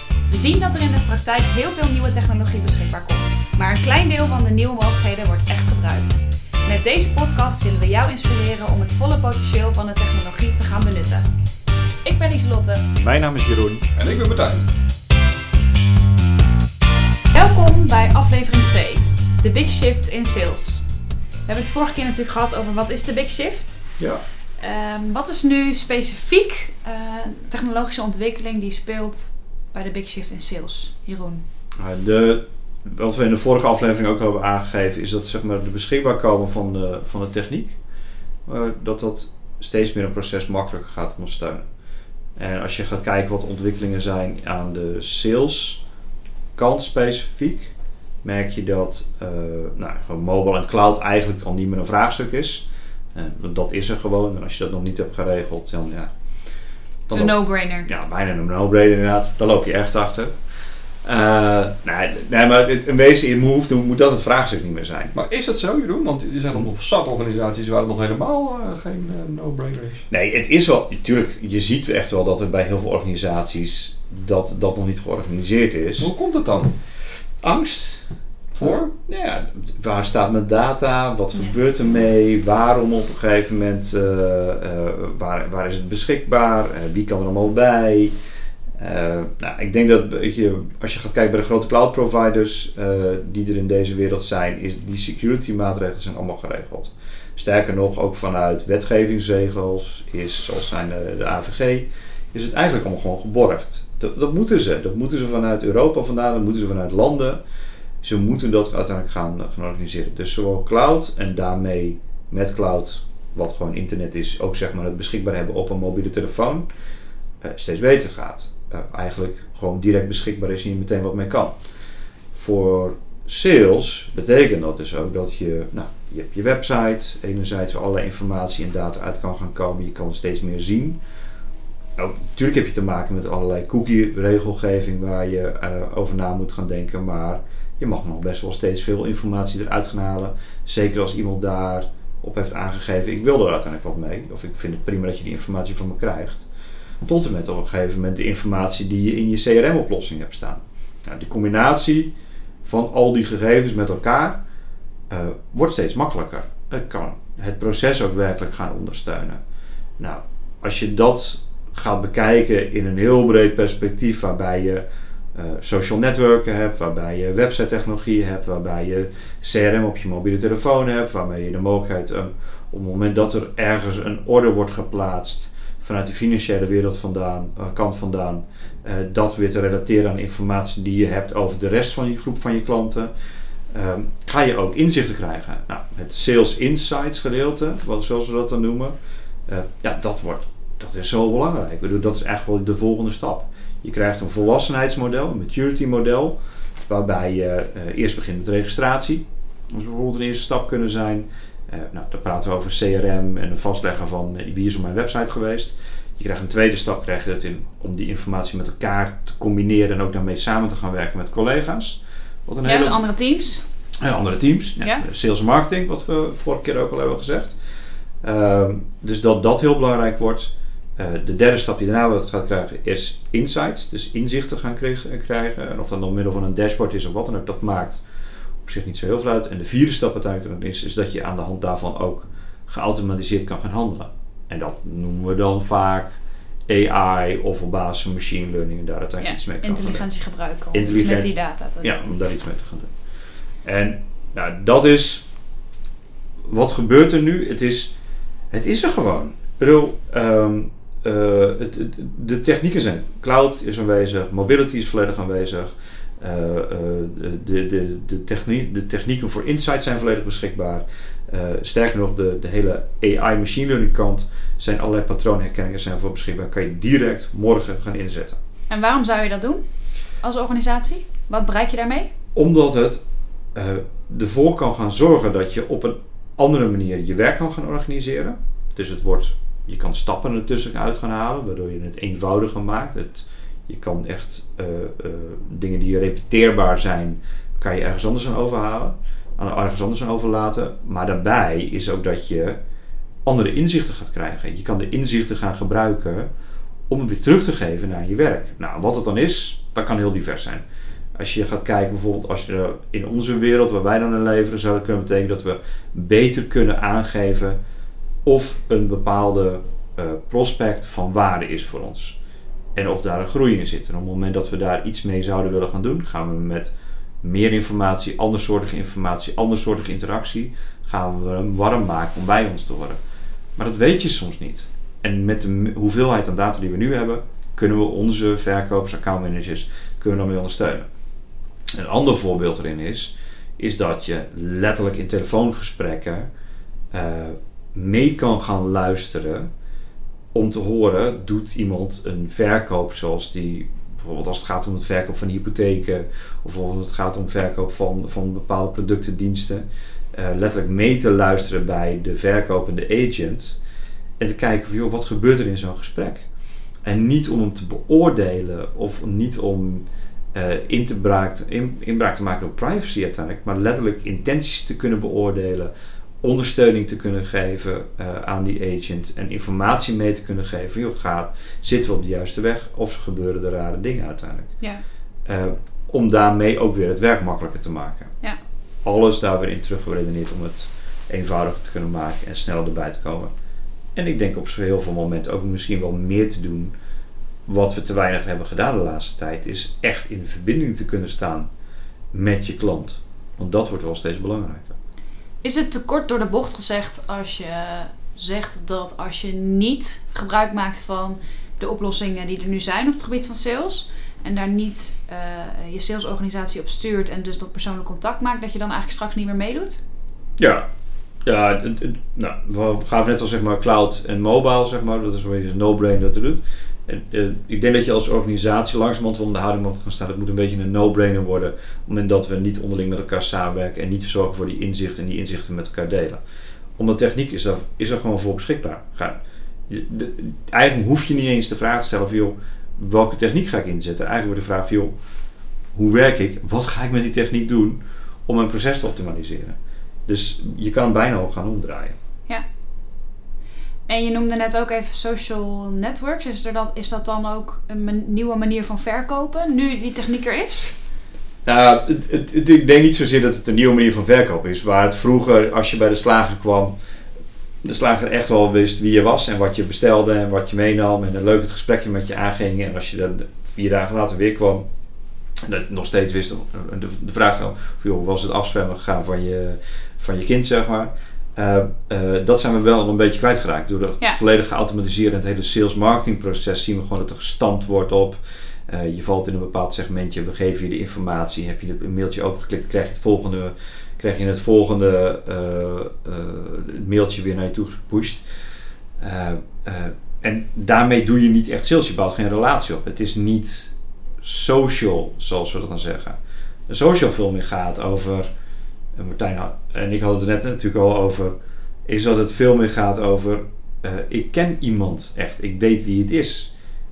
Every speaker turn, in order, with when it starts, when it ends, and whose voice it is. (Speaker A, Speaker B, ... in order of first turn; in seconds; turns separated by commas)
Speaker A: 0.3-11.3, Speaker A: 12.0-12.9, Speaker B: 12.9-13.9, Speaker C: 14.0-14.7, Speaker A: 17.3-20.8, Speaker A: 21.4-23.9, Speaker A: 24.6-31.4, Speaker B: 31.8-37.8, Speaker B: 38.5-41.7, Speaker B: 42.4-45.8, Speaker B: 46.5-52.6, Speaker B: 53.1-56.1, Speaker B: 57.1-60.3, Speaker A: 57.1-57.9, Speaker B: 61.0-65.1, Speaker C: 65.1-70.0, Speaker B: 70.1-76.1, Speaker C: 76.0-76.8, Speaker B: 77.4-78.0, Speaker C: 78.5-78.9, Speaker B: 78.6-88.1, Speaker B: 88.8-107.4, Speaker B: 108.0-116.7, Speaker B: 117.4-121.5, Speaker B: 122.3-131.0, Speaker B: 132.0-146.5, Speaker B: 147.0-152.1, Speaker B: 152.6-154.4, Speaker B: 155.1-159.4, Speaker B: 160.0-164.8, Speaker B: 165.3-183.1, Speaker B: 183.7-188.9, Speaker B: 189.5-213.0, Speaker A: 212.7-213.6, Speaker B: 214.0-217.6, Speaker B: 218.2-228.0, Speaker B: 228.6-236.1, Speaker B: 236.7-240.1, Speaker A: 239.2-242.0, Speaker B: 240.7-242.9, Speaker B: 243.6-245.3, Speaker B: 246.5-247.9, Speaker B: 248.5-268.4, Speaker A: 268.7-269.6, Speaker A: 270.2-272.1, Speaker B: 272.3-273.0, Speaker B: 273.5-292.6, Speaker B: 293.2-296.3, Speaker B: 296.9-300.6, Speaker B: 301.2-307.6, Speaker B: 308.2-312.1, Speaker B: 312.8-323.0, Speaker B: 323.6-330.9, Speaker B: 331.7-336.3, Speaker B: 336.9-339.5, Speaker B: 340.3-353.6, Speaker B: 354.2-356.2, Speaker B: 356.8-365.7, Speaker B: 366.2-374.5, Speaker B: 375.2-378.1, Speaker B: 378.8-383.3, Speaker B: 383.9-386.7, Speaker B: 387.5-391.5, Speaker B: 392.1-394.8, Speaker A: 395.4-409.8, Speaker B: 410.4-410.6, Speaker B: 411.2-426.2, Speaker B: 426.8-429.2, Speaker B: 429.7-434.9, Speaker B: 435.7-441.9, Speaker A: 443.9-450.7, Speaker B: 451.4-456.7, Speaker B: 457.6-464.6, Speaker B: 465.4-488.2, Speaker B: 489.0-496.2, Speaker B: 496.7-498.3, Speaker B: 498.9-501.3, Speaker B: 501.9-506.5